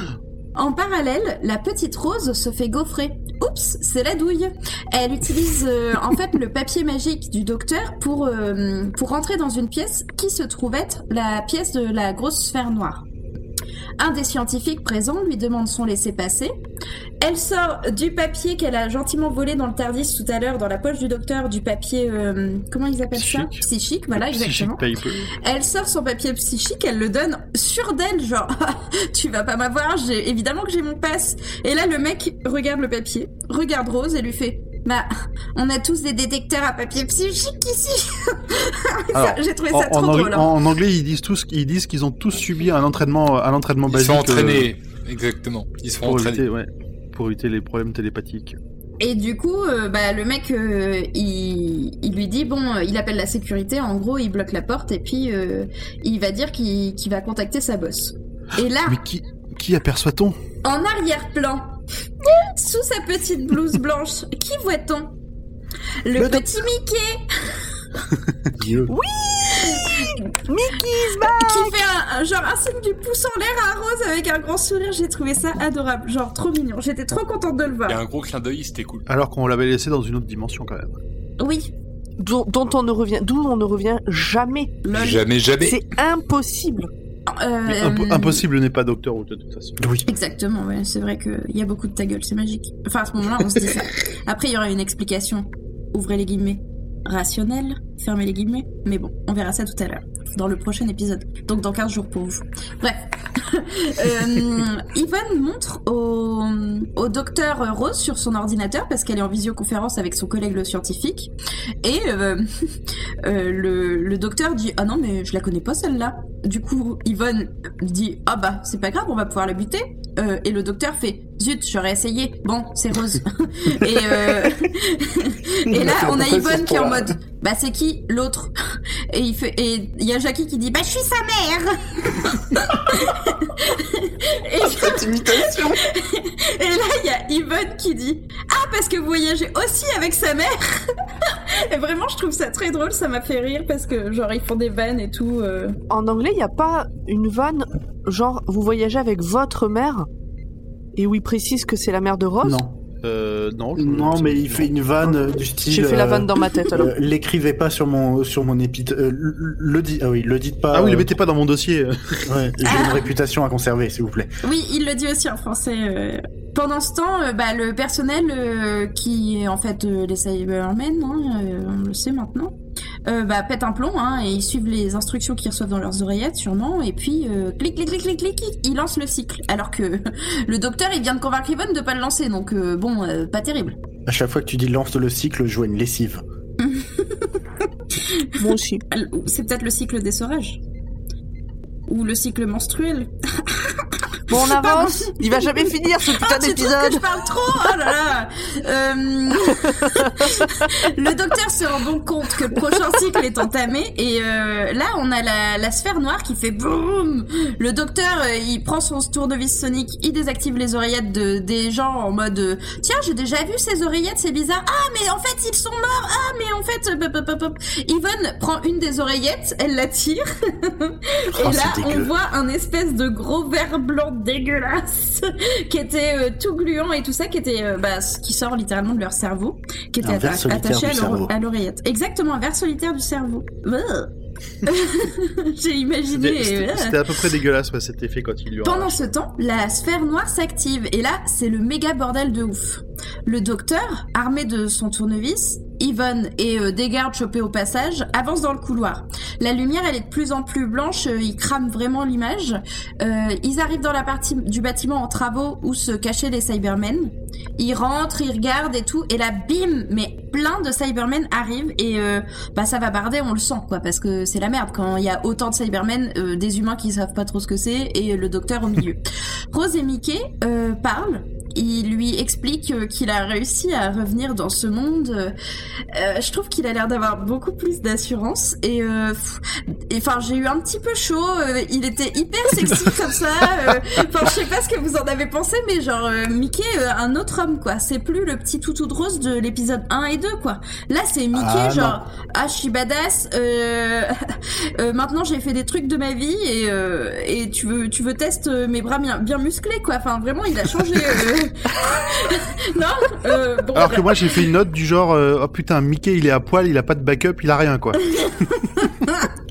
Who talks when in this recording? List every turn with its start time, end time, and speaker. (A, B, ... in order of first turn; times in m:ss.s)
0:00.6-0:13.0 A
0:14.0-0:16.5 A
0:17.2-0:40.5 A
0:23.1-0:25.3 B
0:39.1-0:44.7 B
0:43.9-0:46.4 C
0:46.0-0:48.6 B
0:49.0-0:59.0 A
0:58.9-1:00.4 B
1:00.6-1:01.7 A
1:02.6-1:05.1 A
1:06.0-1:07.6 A
1:08.6-1:09.0 D
1:08.9-1:11.7 E
1:09.6-1:10.2 A
1:11.2-1:18.0 A
1:17.9-1:19.1 C
1:19.1-1:21.0 B
1:21.4-1:21.7 A
1:22.2-1:24.8 E
1:24.8-1:25.2 A
1:24.9-1:25.8 C
1:25.6-1:26.9 E
1:27.3-1:28.4 A
1:27.7-1:29.8 B
1:29.8-1:30.1 D
1:30.1-1:51.3 A
1:51.8-1:52.5 A
1:53.2-2:08.5 A
2:05.7-2:07.2 D
2:09.1-2:25.8 A
2:14.6-2:15.8 D
2:25.9-2:30.1 E
2:31.0-2:32.6 E
2:32.4-2:32.8 D
2:33.0-2:34.7 B
2:33.8-2:41.2 D
2:35.7-2:36.9 E
2:40.7-2:42.4 B
2:42.3-2:44.4 D
2:42.6-2:43.1 A
2:44.4-2:52.5 A
2:53.1-3:03.8 A
3:04.1-3:06.2 D
3:06.6-3:07.4 A
3:08.0-3:08.4 A
3:08.4-3:08.8 E
3:08.9-3:10.6 A
3:11.9-3:15.3 A
3:14.3-3:17.0 E
3:16.0-3:54.1 A
3:41.3-3:42.1 D
3:50.0-3:51.3 D
3:54.6-3:57.0 A
3:56.1-3:59.1 B
3:58.6-4:35.4 A
4:35.9-4:54.1 A
4:51.3-4:52.0 D
4:54.8-5:04.4 A
5:03.8-5:08.0 B